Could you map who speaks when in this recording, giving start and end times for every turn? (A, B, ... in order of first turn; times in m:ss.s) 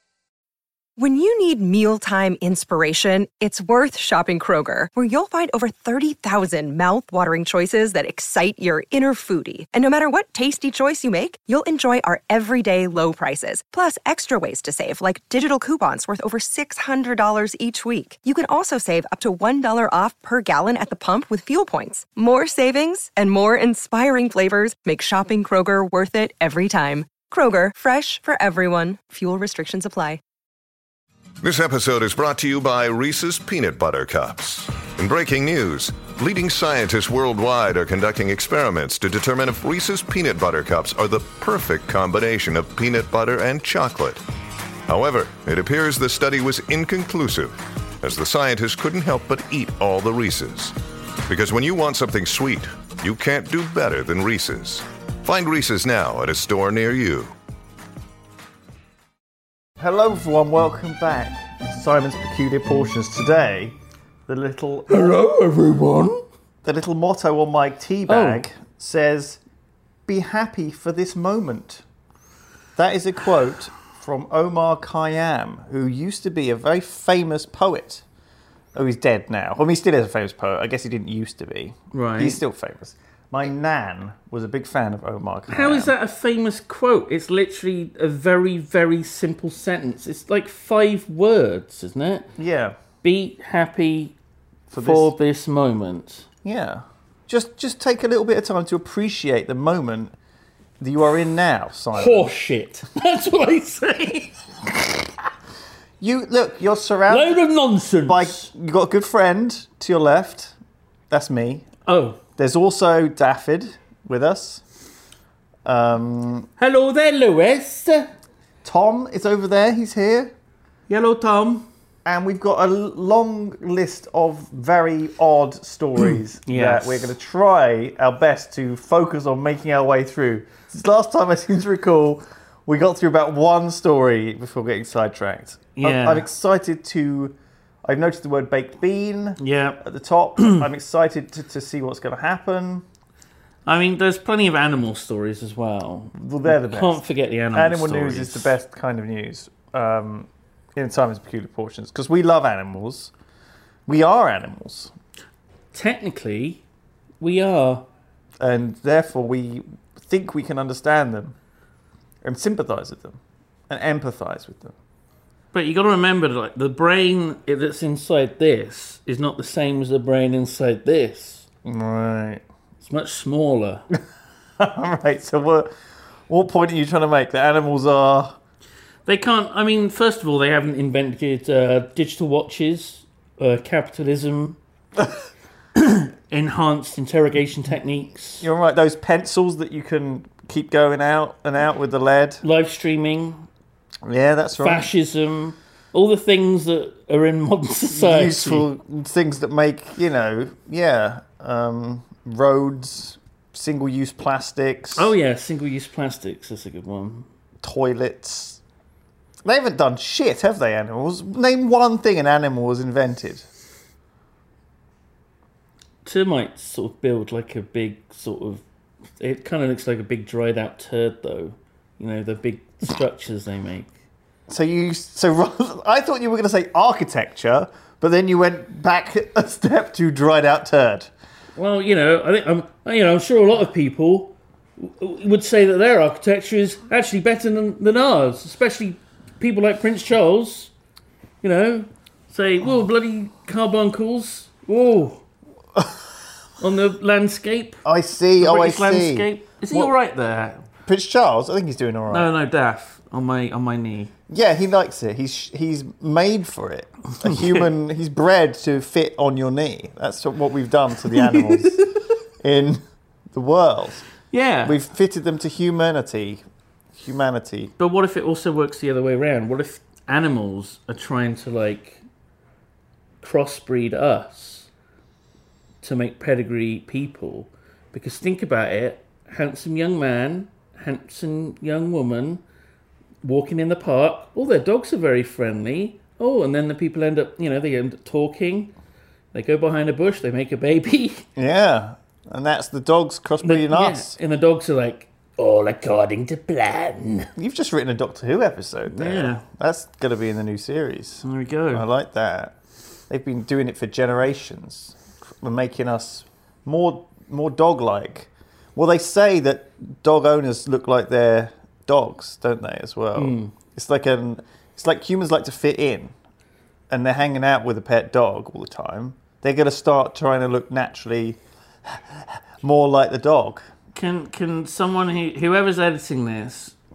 0:01.0-0:30.2 A
0:31.4-0:44.2 B
0:44.9-0:57.3 B
0:59.8-1:03.8 C
1:04.3-1:05.2 C
1:04.9-1:06.2 D
1:06.6-1:09.4 C
1:08.1-1:08.5 D
1:10.1-1:11.8 C
1:12.8-1:18.0 C
1:18.7-1:25.9 C
1:21.9-1:22.4 D
1:25.5-1:32.3 D
1:32.4-1:32.8 C
1:33.0-1:34.2 D
1:34.7-1:35.1 C
1:34.8-1:36.3 D
1:36.4-1:40.1 C
1:40.8-1:42.3 C
1:41.9-1:44.4 D
1:46.0-1:47.4 C
1:47.1-1:48.5 D
1:48.1-1:50.6 C
1:51.1-1:51.7 C
1:51.9-1:52.2 D
1:52.4-1:54.6 C
1:55.6-1:56.5 C
1:56.6-1:58.1 D
1:58.6-2:00.3 C
2:00.9-2:01.7 D
2:02.0-2:22.8 C
2:06.4-2:07.1 D
2:15.8-2:16.3 D
2:19.4-2:19.8 D
2:23.7-2:28.5 D
2:26.1-2:27.0 C
2:27.5-2:33.1 C
2:33.9-2:34.9 C
2:35.7-2:36.6 D
2:37.2-2:37.8 D
2:38.4-2:41.4 C
2:42.2-2:44.8 C
2:45.5-2:51.5 D
2:51.6-2:52.4 C
2:52.8-2:53.8 D
2:54.6-2:55.7 C
2:56.3-2:58.4 C
2:59.1-3:04.6 D
3:05.8-3:08.5 D
3:08.4-3:12.4 C
3:12.4-3:13.5 D
3:14.0-3:14.9 C
3:14.6-3:18.7 D
3:17.9-3:25.1 C
3:25.0-3:27.3 D
3:27.6-3:28.6 C
3:29.4-3:33.5 C
3:36.0-3:38.6 D
3:39.2-3:43.9 D
3:44.5-3:51.1 C
3:51.6-4:00.7 D
4:01.4-4:05.2 D
4:06.6-4:07.8 D
4:07.8-4:09.9 C
4:08.4-4:10.6 D
4:10.9-4:12.3 C
4:12.1-4:14.1 D
4:14.3-4:21.8 C
4:17.2-4:17.6 D
4:21.2-4:21.6 D
4:22.4-4:24.1 C
4:24.3-4:24.8 D
4:24.7-4:26.4 C
4:27.0-4:27.7 C
4:27.8-4:32.0 D
4:33.2-4:34.7 D
4:35.8-4:42.4 D
4:43.2-4:48.7 D
4:49.3-4:51.3 D
4:51.4-4:54.2 C
4:53.4-4:57.3 D
4:57.4-5:02.6 C
4:58.9-4:59.4 D
5:01.2-5:01.9 D
5:03.1-5:16.1 C
5:13.2-5:13.5 D
5:16.9-5:23.7 C
5:23.9-5:26.8 D